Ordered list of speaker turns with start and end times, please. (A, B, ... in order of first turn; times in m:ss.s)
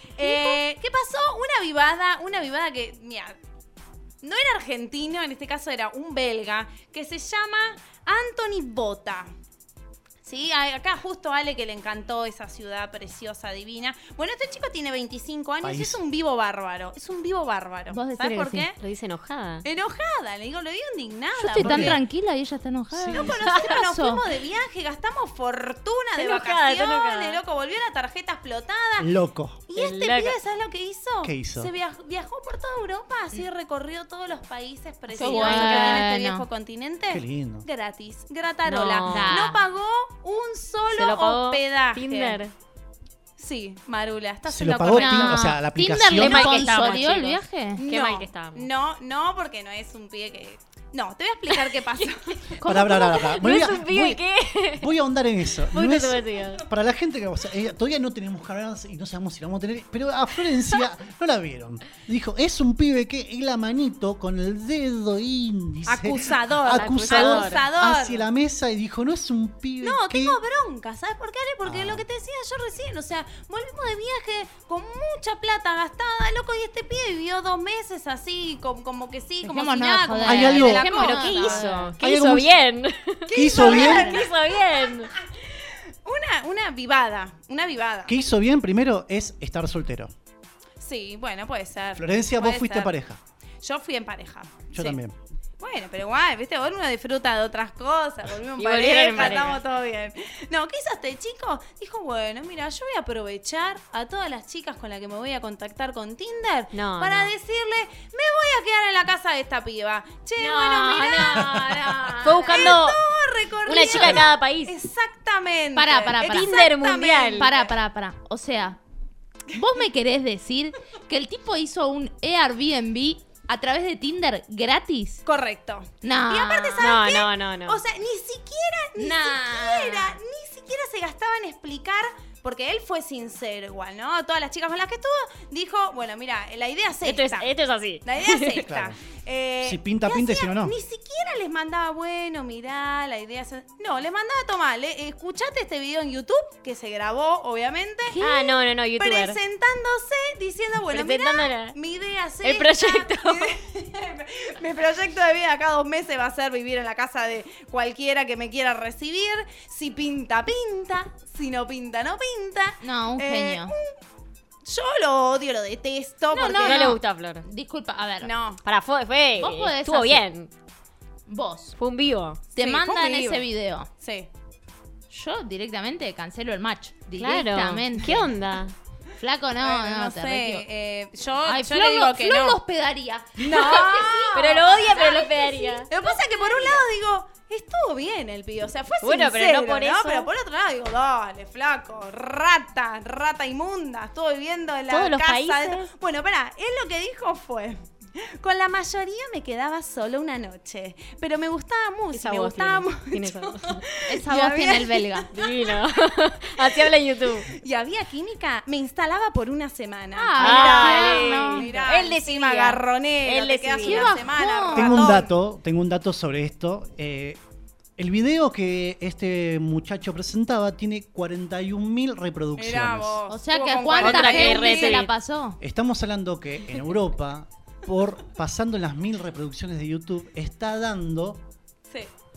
0:00.2-0:03.4 A
0:00.2-0:00.6 B
0:04.2-0:09.3 A
0:10.2-0:18.8 A
0:15.6-0:16.0 C
0:17.9-0:18.7 B
0:18.8-0:19.6 D
0:19.6-0:22.0 A
0:21.4-0:24.2 B
0:21.6-0:22.0 C
0:22.9-0:23.4 C
0:23.1-0:29.1 A
0:23.5-0:23.8 D
0:26.2-0:27.4 D
0:29.0-0:29.6 C
0:29.7-0:42.4 A
0:29.8-0:30.4 D
0:31.2-0:31.7 C
0:35.1-0:36.5 B
0:35.2-0:36.1 D
0:37.1-0:37.7 C
0:38.6-0:39.4 D
0:39.1-0:39.6 B
0:40.9-0:42.5 D
0:43.4-0:45.5 A
0:44.5-0:46.7 C
0:44.9-0:47.8 B
0:46.2-0:48.7 D
0:47.8-0:52.4 A
0:51.5-0:52.0 D
0:52.6-0:53.4 B
0:52.6-0:54.2 C
0:53.2-0:55.0 D
0:54.8-1:10.4 C
0:55.7-0:56.6 D
1:05.9-1:08.2 A
1:06.7-1:07.6 D
1:09.8-1:21.9 A
1:11.6-1:12.0 C
1:19.4-1:21.9 B
1:20.2-1:20.9 C
1:20.9-1:25.1 D
1:22.0-1:22.6 C
1:23.3-1:24.3 A
1:23.3-1:24.1 C
1:23.6-1:24.3 B
1:26.0-1:28.1 A
1:28.1-1:30.1 C
1:30.8-1:33.0 A
1:32.0-1:33.2 C
1:33.6-1:35.0 A
1:34.7-1:35.2 C
1:35.6-1:57.7 A
1:38.6-1:39.6 D
1:46.7-1:47.3 D
1:50.4-1:51.5 D
1:50.9-1:52.7 B
1:52.2-1:53.0 D
1:53.7-1:54.7 D
1:53.8-1:54.3 C
1:55.8-1:56.6 B
1:56.3-1:57.5 D
1:57.4-1:58.8 B
1:59.5-2:05.2 B
2:05.2-2:17.5 A
2:06.0-2:06.9 B
2:06.8-2:07.8 D
2:09.0-2:10.2 B
2:17.0-2:18.6 D
2:18.0-2:28.2 A
2:18.7-2:19.0 C
2:19.6-2:20.8 C
2:28.1-2:28.6 B
2:28.2-2:29.4 D
2:29.0-2:44.0 A
2:30.9-2:31.8 D
2:32.4-2:33.5 D
2:42.8-2:43.8 B
2:44.6-2:47.0 A
2:46.3-2:48.3 B
2:46.5-2:47.4 D
2:48.2-2:48.6 A
2:48.6-2:50.5 D
2:49.4-2:50.3 B
2:51.3-2:51.8 B
2:51.8-2:52.4 D
2:52.5-2:53.9 B
2:52.6-2:53.4 A
2:54.0-2:54.3 A
2:55.1-2:58.3 B
2:57.2-2:58.7 D
2:59.2-3:00.6 B
2:59.6-3:02.6 A
3:01.4-3:06.8 B
3:03.4-3:25.7 A
3:03.6-3:05.9 D
3:09.0-3:10.3 D
3:14.9-3:15.9 D
3:22.1-3:23.8 D
3:24.1-3:25.3 B
3:25.3-3:27.5 D
3:27.5-3:35.3 A
3:30.2-3:31.7 B
3:30.4-3:34.2 D
3:33.8-3:35.3 B
3:34.7-3:37.4 C
3:38.0-3:43.2 C
3:42.6-3:45.0 A
3:43.3-3:45.6 B
3:44.0-3:45.1 D
3:45.6-3:51.4 C